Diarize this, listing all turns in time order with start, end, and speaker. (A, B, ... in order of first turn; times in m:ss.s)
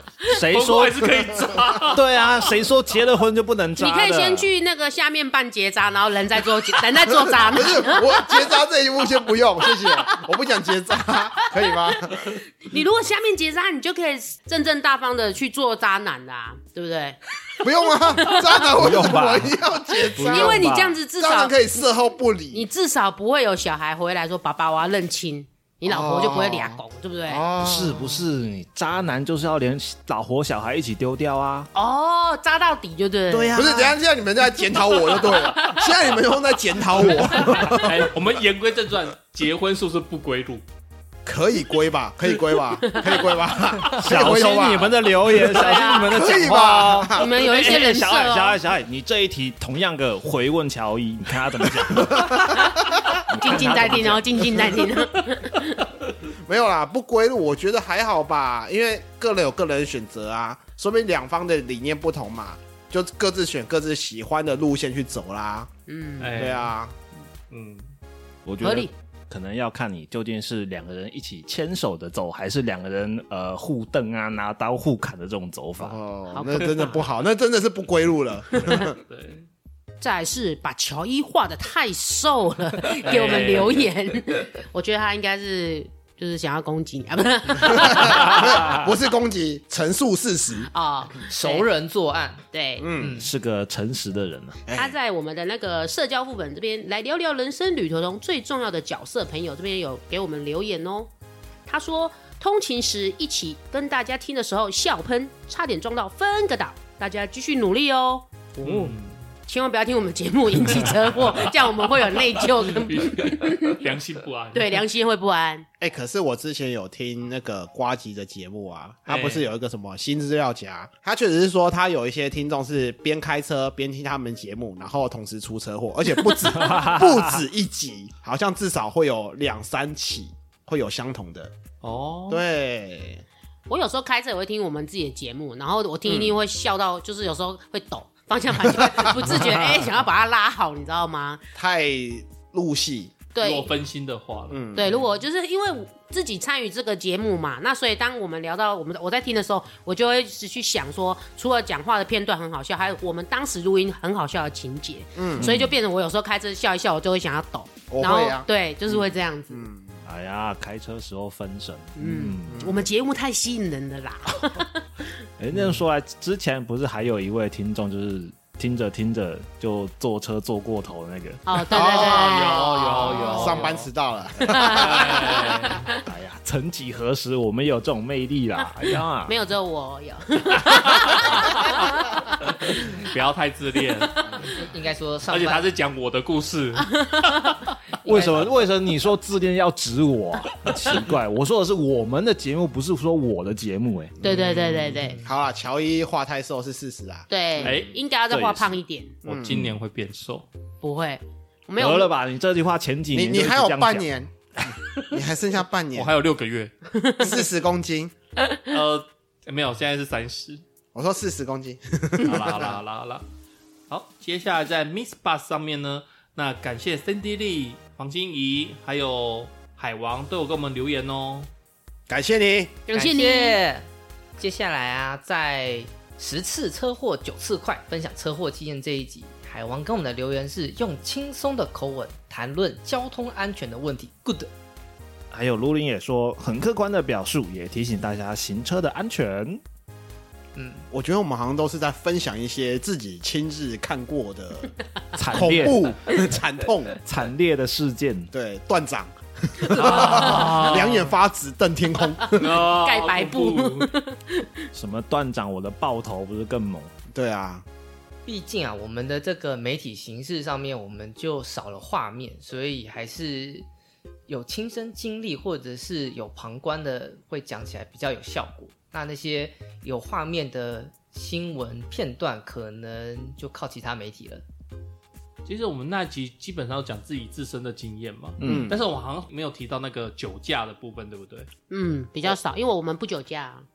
0:00.3-0:01.2 A
0:00.5-0:02.0 B
0:01.9-0:04.5 A
0:03.8-0:08.4 C
0:07.2-0:12.3 D
0:09.7-0:10.2 C
0:11.6-0:18.6 C
0:17.6-0:20.6 D
0:18.8-0:19.6 A
0:19.9-0:21.8 C
0:20.1-0:21.0 A
0:21.2-0:22.6 D
0:22.5-0:27.4 C
0:25.8-0:28.2 D
0:27.6-0:31.7 A
0:31.7-0:33.9 C
0:33.3-0:33.9 A
0:33.5-0:37.9 D
0:34.8-0:35.9 C
0:37.0-0:38.0 C
0:37.7-0:40.6 B
0:41.2-0:47.3 D
0:42.8-0:43.2 C
0:43.9-0:52.7 A
0:45.3-0:46.2 C
0:47.1-0:48.6 C
0:51.9-0:53.1 D
0:52.5-0:52.8 C
0:53.3-0:54.6 A
0:53.4-0:55.9 C
0:56.4-1:05.7 D
1:05.9-1:06.4 C
1:06.2-1:06.7 B
1:06.3-1:06.9 D
1:07.5-1:07.9 B
1:08.4-1:16.0 A
1:08.6-1:08.9 C
1:15.8-1:19.0 D
1:16.3-1:17.0 C
1:18.7-1:19.5 B
1:20.0-1:28.7 C
1:23.0-1:23.9 B
1:27.6-1:30.7 D
1:30.7-1:31.7 C
1:31.2-1:32.4 E
1:32.5-1:32.9 C
1:32.8-1:33.2 D
1:33.0-1:33.3 E
1:33.2-1:34.6 A
1:34.7-1:34.9 D
1:34.7-1:41.1 C
1:41.7-1:53.8 C
1:48.6-1:49.2 B
1:52.5-1:54.8 B
1:54.5-1:55.7 C
1:55.8-2:11.5 D
1:59.1-1:59.5 B
2:06.6-2:07.2 A
2:11.8-2:12.4 B
2:12.3-2:13.2 D
2:13.7-2:21.4 C
2:16.1-2:16.3 D
2:21.6-2:23.1 D
2:23.3-2:23.7 C
2:23.4-2:25.0 B
2:24.5-2:25.0 D
2:24.7-2:39.7 C
2:35.2-2:35.5 D
2:35.4-2:35.8 A
2:37.9-2:40.0 D
2:40.0-2:42.6 A
2:42.0-2:44.8 C
2:42.5-2:42.9 D
2:45.4-2:51.4 A
2:51.4-2:53.7 C
2:51.7-2:55.4 D
2:51.9-2:53.9 B
2:54.4-2:56.0 C
2:54.6-2:55.9 B
2:56.0-2:59.4 A
2:59.2-3:03.0 C
3:02.6-3:04.3 B
3:04.4-3:05.7 E
3:05.3-3:07.6 B
3:07.0-3:07.4 C
3:08.0-3:14.2 A
3:08.1-3:08.4 E
3:14.2-3:14.6 D
3:14.2-3:15.2 C
3:15.0-3:15.3 E
3:15.2-3:17.7 D
3:17.3-3:19.2 C
3:17.6-3:18.6 B
3:18.3-3:18.7 A
3:19.2-3:20.5 B
3:19.2-3:19.6 D
3:20.8-3:22.1 C
3:21.8-3:24.1 A
3:23.1-3:24.3 D
3:24.9-3:26.1 D
3:25.9-3:26.7 B
3:26.9-3:27.2 C
3:27.2-3:28.1 D
3:28.6-3:30.6 B
3:30.9-3:32.8 D
3:32.2-3:33.2 B
3:33.9-3:41.5 B
3:42.1-3:42.8 D
3:42.9-3:43.6 C
3:42.9-3:54.5 E
3:55.3-3:59.6 A
4:00.5-4:00.9 E
4:00.9-4:04.7 D
4:05.1-4:05.9 A
4:05.3-4:07.0 D
4:07.0-4:08.3 A
4:08.3-4:12.6 D
4:09.7-4:11.1 B
4:09.8-4:10.6 C
4:12.2-4:14.7 C
4:12.4-4:13.9 B
4:14.7-4:16.9 A
4:17.1-4:17.6 D
4:18.2-4:23.6 E
4:24.3-4:34.4 E
4:35.4-4:41.5 B
4:38.4-4:38.8 A
4:38.4-4:38.8 D
4:41.7-4:43.6 C